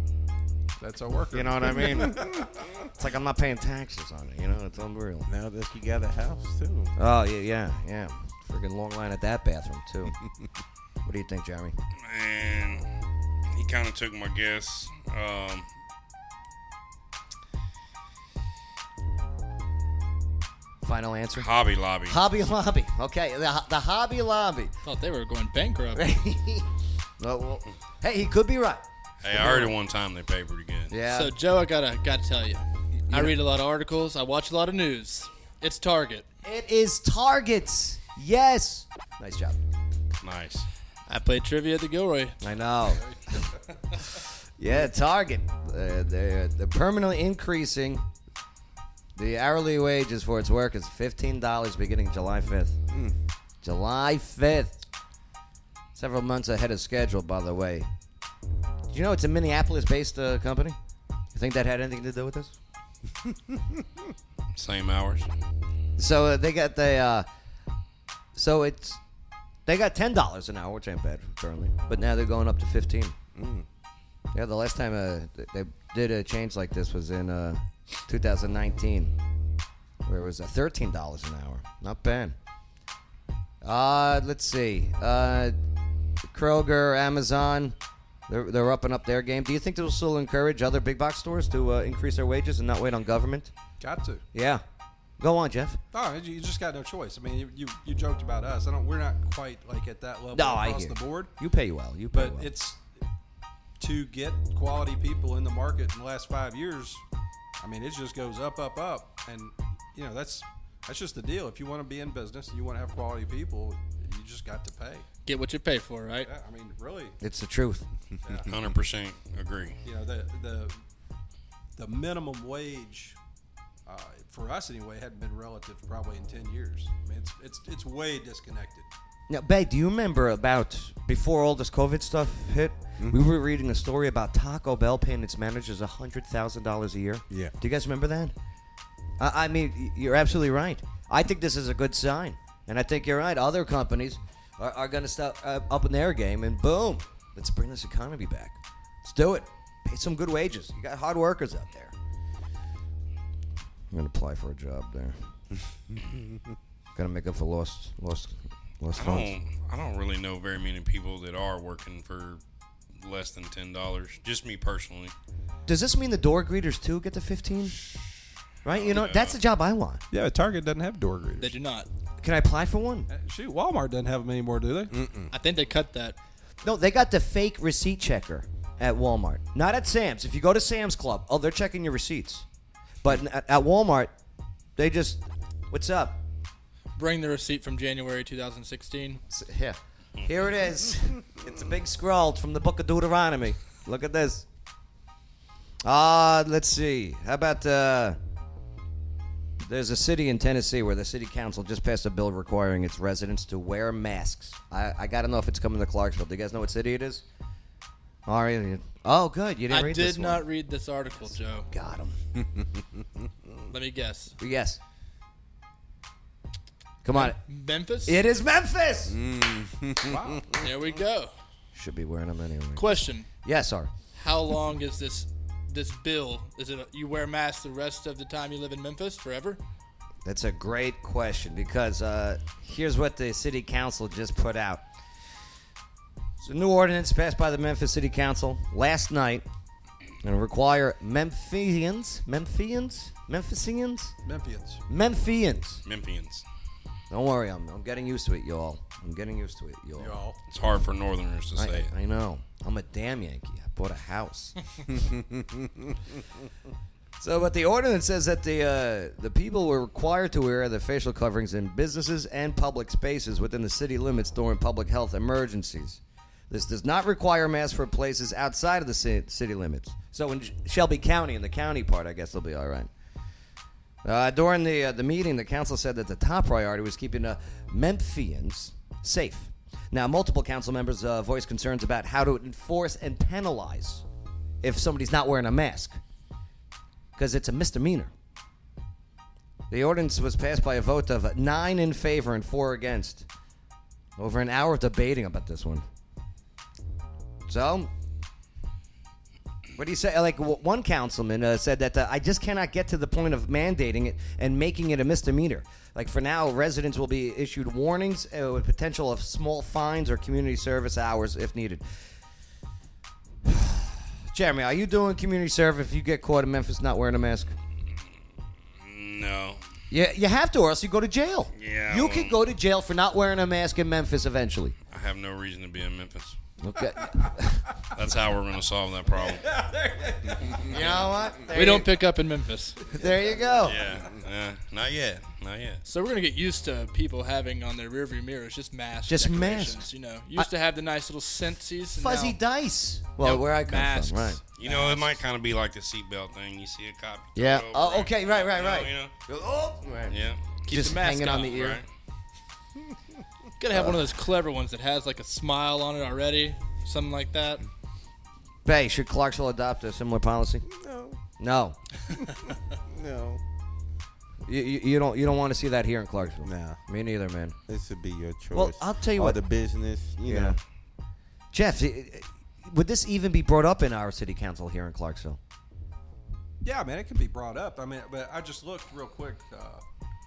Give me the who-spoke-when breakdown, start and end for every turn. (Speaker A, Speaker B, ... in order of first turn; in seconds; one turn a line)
Speaker A: 0.8-2.4
Speaker B: 1.3-5.3
Speaker C: 5.3-6.9
Speaker B: 7.0-10.2
Speaker B: 11.0-11.8
Speaker D: 12.0-12.9
Speaker D: 13.5-15.7
Speaker B: 20.8-21.5
Speaker D: 21.4-22.2
Speaker B: 22.1-24.7
Speaker E: 24.8-26.1
Speaker B: 25.9-26.7
Speaker B: 27.2-29.7
Speaker D: 29.2-30.9
Speaker B: 30.9-31.3
Speaker E: 31.1-36.2
Speaker B: 33.1-33.4
Speaker B: 36.4-39.6
Speaker D: 40.2-40.7
Speaker E: 41.1-42.4
Speaker B: 42.4-43.0
Speaker B: 44.6-48.0
Speaker B: 49.1-52.8
Speaker B: 53.6-54.8
Speaker B: 55.9-57.9
Speaker B: 58.9-60.8
Speaker B: 61.3-62.5
Speaker D: 64.5-65.3
Speaker B: 66.0-67.3
Speaker B: 68.3-69.0
Speaker B: 69.7-73.1
Speaker C: 73.3-73.6
Speaker B: 74.3-79.1
Speaker B: 80.0-82.3
Speaker B: 83.6-85.5
Speaker B: 86.3-87.8
Speaker B: 88.3-93.5
Speaker A: 93.8-94.2
Speaker B: 94.3-94.6
Speaker B: 95.2-95.8
Speaker A: 95.9-101.3
Speaker B: 100.3-102.5
Speaker A: 102.1-102.8
Speaker A: 103.8-107.0
Speaker A: 107.6-115.0
Speaker E: 115.2-116.3
Speaker A: 116.2-117.2
Speaker B: 117.2-117.8
Speaker A: 118.2-118.5
Speaker D: 118.5-119.8
Speaker A: 119.8-120.8
Speaker A: 121.8-123.2
Speaker A: 123.8-128.9
Speaker B: 129.3-138.3
Speaker B: 139.2-151.9
Speaker B: 153.9-155.2
Speaker B: 156.9-159.3
Speaker D: 158.9-162.4
Speaker D: 163.0-165.1
Speaker B: 165.7-167.8
Speaker B: 168.6-170.0
Speaker D: 168.7-169.4
Speaker A: 170.1-171.5
Speaker E: 171.4-171.9
Speaker B: 172.2-173.1
Speaker A: 173.1-174.9
Speaker C: 174.9-175.3
Speaker E: 175.3-176.2
Speaker B: 176.6-182.4
Speaker B: 183.0-184.1
Speaker B: 184.8-186.2
Speaker E: 186.9-189.2
Speaker B: 189.3-194.4
Speaker B: 195.8-198.2
Speaker B: 199.6-207.2
Speaker B: 208.2-210.4
Speaker E: 209.7-211.7
Speaker B: 211.7-212.2
Speaker E: 213.7-214.3
Speaker B: 214.4-214.8
Speaker B: 217.0-217.4
Speaker E: 217.1-218.2
Speaker B: 218.1-219.2
Speaker C: 219.1-220.6
Speaker A: 220.1-220.5
Speaker E: 220.6-221.3
Speaker B: 221.7-223.9
Speaker E: 222.8-223.3
Speaker E: 224.1-229.6
Speaker B: 230.2-234.8
Speaker B: 236.4-239.4
Speaker B: 240.2-244.1
Speaker A: 244.2-244.8
Speaker B: 244.9-245.8
Speaker D: 245.8-246.4
Speaker B: 247.1-250.2
Speaker A: 249.9-250.4
Speaker D: 250.5-251.9
Speaker B: 251.6-254.6
Speaker C: 254.9-255.7
Speaker B: 257.2-272.9
Speaker B: 274.0-284.0
Speaker B: 284.6-286.0
Speaker B: 287.1-288.1
Speaker B: 289.7-293.3
Speaker B: 294.2-295.8
Speaker B: 297.5-297.9
Speaker B: 299.8-311.8
Speaker B: 313.4-317.5
Speaker D: 318.8-319.6
Speaker B: 319.9-324.8
Speaker D: 321.6-322.4
Speaker D: 324.9-326.4
Speaker B: 326.6-327.6
Speaker D: 327.9-329.4
Speaker A: 329.1-330.7
Speaker B: 330.7-331.9
Speaker E: 331.5-332.8
Speaker B: 332.9-333.8
Speaker D: 333.6-335.8
Speaker E: 335.8-342.4
Speaker B: 339.1-339.8
Speaker B: 341.9-344.4
Speaker E: 343.2-345.2
Speaker D: 344.6-349.1
Speaker B: 347.4-351.8
Speaker D: 350.1-350.4
Speaker E: 350.6-351.7
Speaker D: 351.5-351.8
Speaker E: 353.6-357.6
Speaker B: 353.7-354.1
Speaker B: 358.6-360.6
Speaker C: 360.7-361.2
Speaker B: 361.4-361.8
Speaker C: 362.9-363.4
Speaker B: 364.5-367.6
Speaker C: 366.4-366.8
Speaker C: 367.7-370.6
Speaker B: 368.5-369.4
Speaker B: 370.2-370.6
Speaker B: 371.5-375.4
Speaker A: 376.6-379.8